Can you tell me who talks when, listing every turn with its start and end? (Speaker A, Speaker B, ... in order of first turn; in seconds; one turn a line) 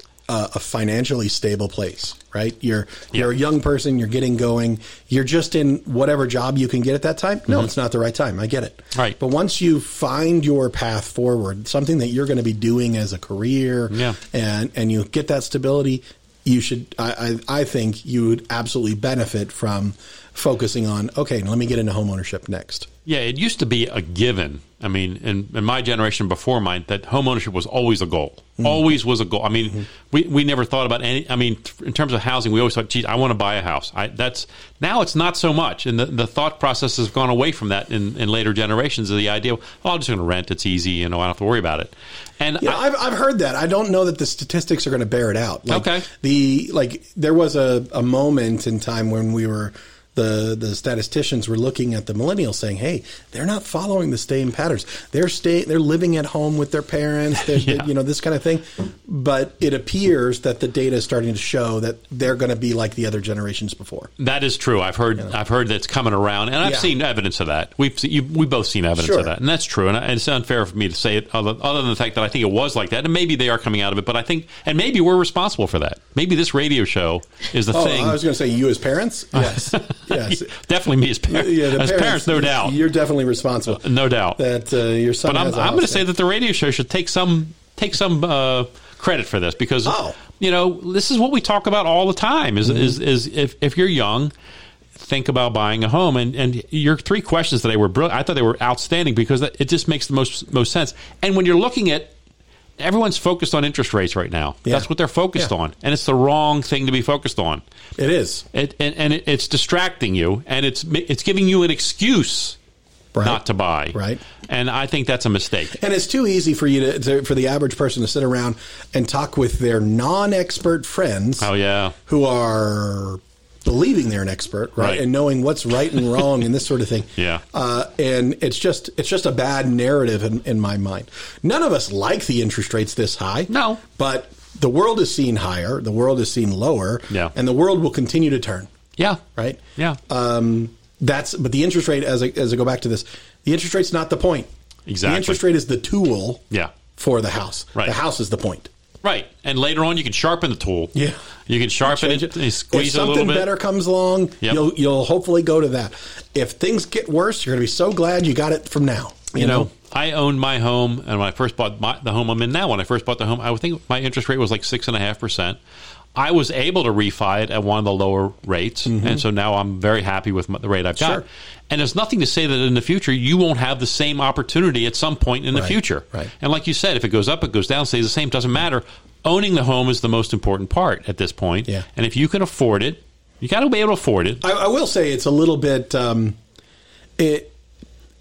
Speaker A: 0.3-22.9
Speaker B: 13.9-14.2
Speaker B: 23.1-42.8
Speaker A: 42.6-64.1
Speaker B: 45.7-46.1
Speaker B: 57.5-57.9
Speaker B: 64.2-78.2
Speaker A: 66.6-66.9
Speaker A: 69.0-69.3
Speaker A: 77.7-80.5
Speaker B: 79.4-82.8
Speaker A: 81.3-83.8
Speaker B: 83.7-84.4
Speaker A: 84.4-86.0
Speaker B: 85.2-94.3
Speaker A: 89.8-90.2
Speaker B: 95.0-102.1
Speaker B: 102.8-107.6
Speaker A: 104.7-105.5
Speaker A: 108.0-108.5
Speaker B: 108.5-112.6
Speaker A: 113.1-113.4
Speaker B: 113.2-115.8
Speaker A: 113.9-114.2
Speaker A: 115.7-121.5
Speaker B: 121.4-122.0
Speaker A: 122.1-138.7
Speaker B: 124.8-125.0
Speaker B: 127.2-127.4
Speaker B: 133.5-133.8
Speaker B: 139.0-139.2
Speaker A: 139.3-144.5
Speaker B: 144.9-145.4
Speaker A: 145.0-148.7
Speaker B: 149.0-151.0
Speaker B: 151.5-153.5
Speaker A: 151.8-159.7
Speaker B: 159.3-165.6
Speaker B: 166.2-184.4
Speaker A: 168.9-169.2
Speaker A: 175.5-176.3
Speaker A: 184.4-186.4
Speaker A: 187.2-187.5